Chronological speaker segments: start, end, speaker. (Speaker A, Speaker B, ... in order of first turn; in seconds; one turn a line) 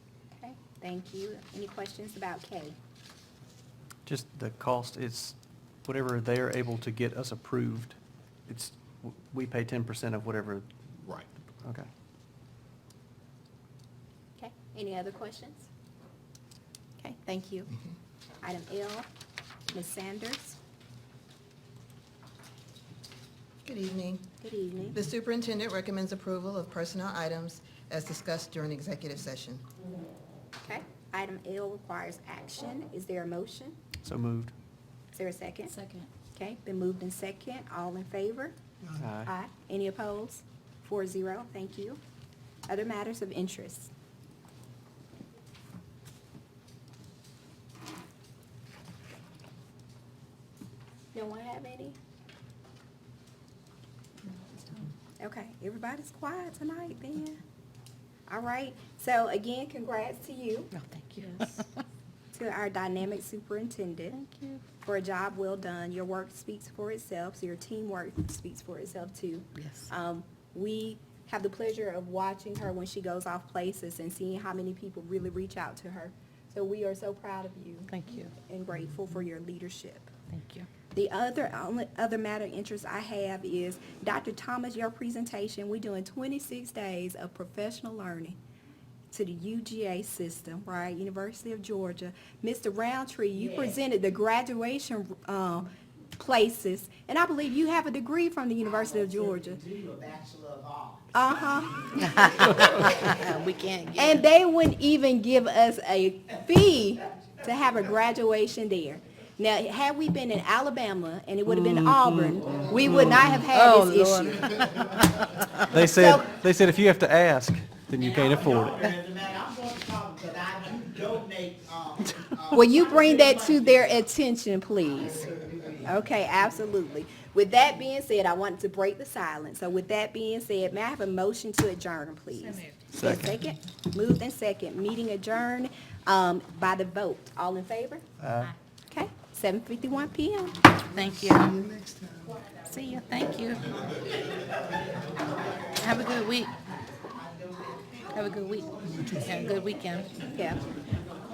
Speaker A: 0.3-2.8
Speaker B: 4.0-8.0
Speaker B: 8.5-10.6
Speaker A: 14.4-15.7
Speaker A: 17.0-17.7
Speaker A: 18.4-19.1
Speaker A: 19.7-20.6
Speaker C: 23.6-24.2
Speaker A: 24.4-24.9
Speaker C: 24.9-29.6
Speaker A: 30.6-33.8
Speaker B: 34.0-34.5
Speaker A: 35.1-35.7
Speaker D: 35.8-36.0
Speaker A: 36.3-38.5
Speaker B: 39.0-39.3
Speaker A: 39.2-42.0
Speaker A: 42.7-43.9
Speaker A: 51.1-52.0
Speaker A: 55.2-57.4
Speaker A: 58.3-60.7
Speaker D: 60.7-61.7
Speaker A: 62.3-80.1
Speaker D: 64.3-64.6
Speaker D: 69.5-69.9
Speaker D: 77.9-78.3
Speaker D: 80.3-80.7
Speaker A: 80.9-88.4
Speaker A: 89.1-99.6
Speaker E: 99.6-101.0
Speaker A: 101.1-102.5
Speaker D: 101.9-104.2
Speaker A: 104.0-114.6
Speaker D: 111.7-112.0
Speaker D: 112.9-115.1
Speaker B: 115.7-118.9
Speaker A: 115.9-116.2
Speaker E: 119.1-122.0
Speaker C: 119.8-121.3
Speaker A: 122.5-138.0
Speaker B: 132.9-133.3
Speaker B: 138.2-138.5
Speaker A: 138.9-140.6
Speaker D: 140.9-141.6
Speaker E: 141.7-142.1
Speaker D: 142.7-143.6
Speaker D: 145.8-146.5
Speaker D: 148.1-150.1
Speaker A: 150.3-150.6